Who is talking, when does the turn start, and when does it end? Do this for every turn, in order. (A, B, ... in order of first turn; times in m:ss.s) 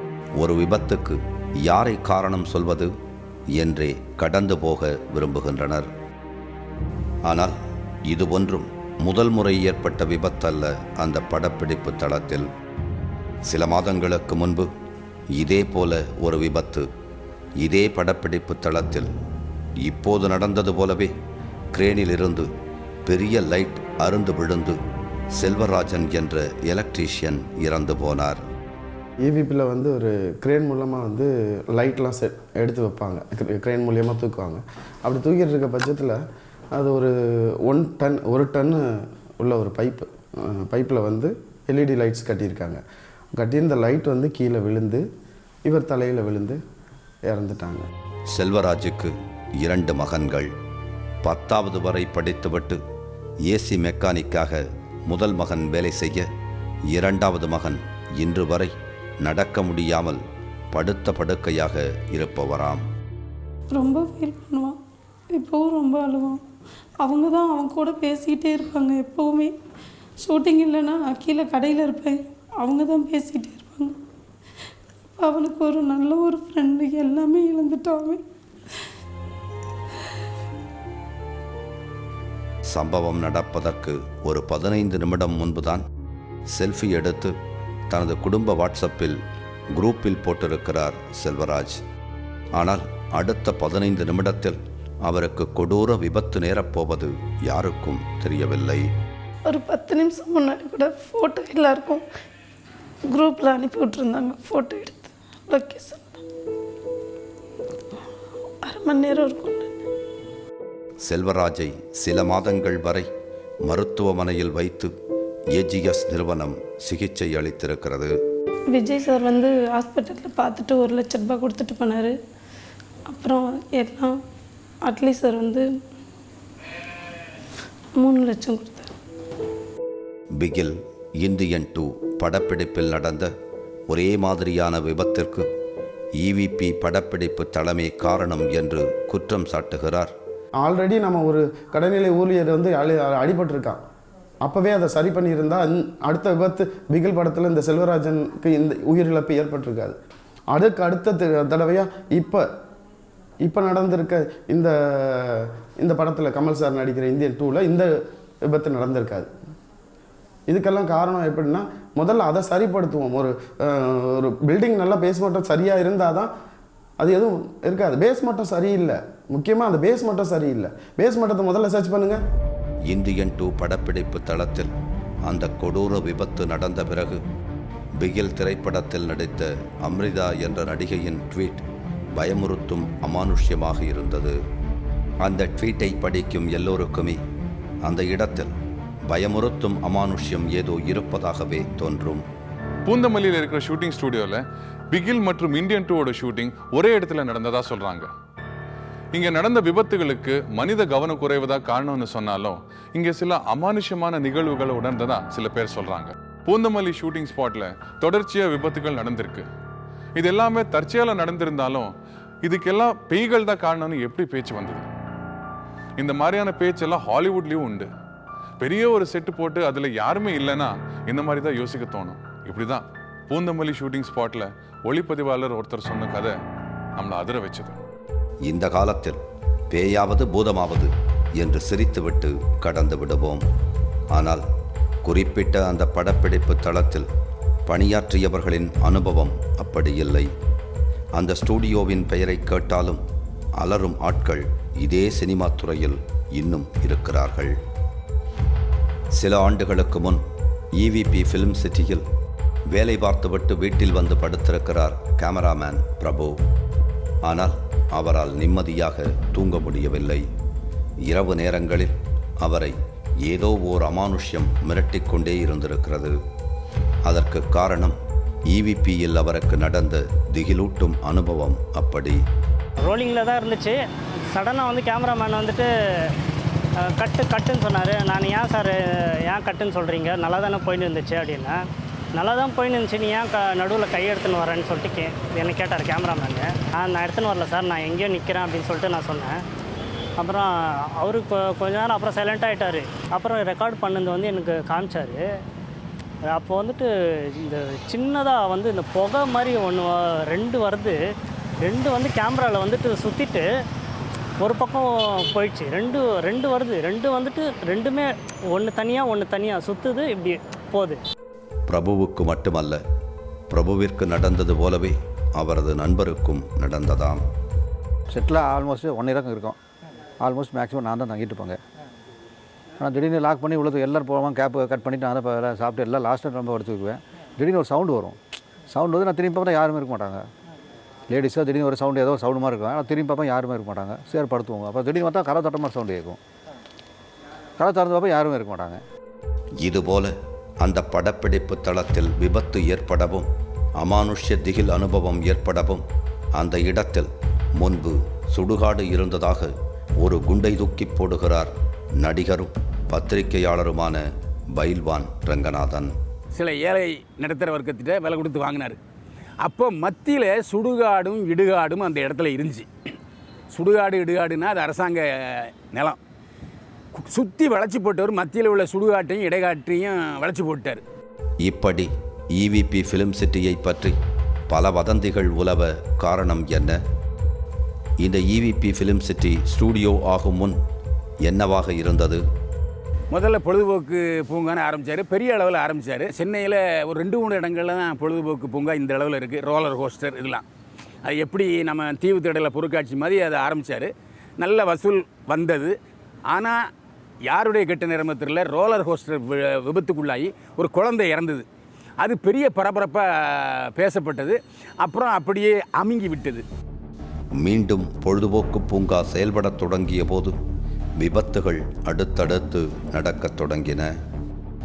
0:00.4-0:02.9 A
0:03.5-0:05.9 A
0:07.2-0:07.6 A
0:08.1-0:12.5 A
0:13.4-0:14.7 A
0:15.3-0:16.9 A
0:17.6-0:19.1 A
0:19.8-0:21.1 A
0:21.7-0:22.5 A
0:23.0-0:24.8 A
0:25.4-0:28.4 A
0:29.2-0:36.2 B
0:36.7-0:42.8 B
0:43.4-0:45.0 B
0:45.6-0:46.6 B
0:47.2-0:47.8 B
0:48.3-0:50.5 A
0:51.2-0:52.8 A
0:53.4-0:56.3 A
0:56.9-1:00.2 A
1:00.7-1:02.8 A
1:03.7-1:04.8 C
1:05.3-1:06.4 C
1:07.0-1:09.5 C
1:10.2-1:14.0 C
1:15.2-1:18.2 C
1:22.7-1:25.8 A
1:26.5-1:27.4 A
1:27.9-1:29.2 A
1:29.7-1:31.8 A
1:32.5-1:38.9 A
1:39.5-1:42.0 C
1:43.1-1:46.2 C
1:48.6-1:49.7 C
1:51.0-1:53.1 A
1:53.6-1:54.9 A
1:55.5-1:58.1 A
1:58.7-2:02.2 C
2:03.1-2:04.2 C
2:04.8-2:05.7 C
2:08.0-2:08.9 C
2:10.4-2:13.3 A
2:13.9-2:15.5 A
2:16.2-2:20.1 A
2:20.6-2:23.8 B
2:24.4-2:30.0 B
2:30.5-2:32.5 B
2:33.4-2:37.9 B
2:38.4-2:39.3 B
2:40.5-2:46.3 B
2:47.0-2:52.2 B
2:52.9-2:54.7 A
2:55.2-2:57.2 A
2:58.0-3:04.4 A
3:05.2-3:07.2 A
3:07.8-3:08.5 A
3:09.1-3:12.2 A
3:12.8-3:18.1 D
3:19.1-3:29.4 D
3:30.2-3:31.9 D
3:32.4-3:34.9 D
3:36.0-3:37.9 D
3:38.6-3:46.4 D
3:47.0-3:47.8 D
3:48.4-3:53.4 A
3:54.1-3:54.4 A
3:55.0-3:57.1 A
3:57.7-4:00.3 A
4:01.1-4:03.0 A
4:03.6-4:07.6 A
4:09.1-4:10.2 A
4:10.8-4:12.0 A
4:12.7-4:16.4 A
4:17.2-4:20.2 A
4:21.0-4:26.2 A
4:27.0-4:28.0 A
4:28.5-4:32.2 A
4:32.8-4:33.8 E
4:34.3-4:36.1 E
4:36.8-4:41.6 E
4:42.1-4:49.4 E
4:50.2-4:55.2 E
4:56.3-5:01.0 E
5:01.6-5:03.4 E
5:04.4-5:11.0 E
5:11.7-5:12.8 A
5:13.5-5:17.2 A
5:18.1-5:19.6 F
5:20.2-5:21.6 F
5:22.8-5:28.2 F
5:28.7-5:30.2 F
5:31.1-5:36.2 F
5:37.6-5:38.8 F
5:39.6-5:56.0 A
5:56.3-5:58.8 G
5:59.4-6:02.7 G
6:03.5-6:06.0 G
6:06.9-6:10.8 G
6:11.4-6:14.0 A
6:14.5-6:16.8 A
6:18.0-6:20.6 A
6:21.2-6:22.2 A
6:23.1-6:30.4 G
6:31.0-6:35.7 G
6:36.3-6:36.6 G
6:37.3-6:41.4 G
6:42.0-6:46.4 G
6:47.4-6:50.3 A
6:51.0-6:53.9 A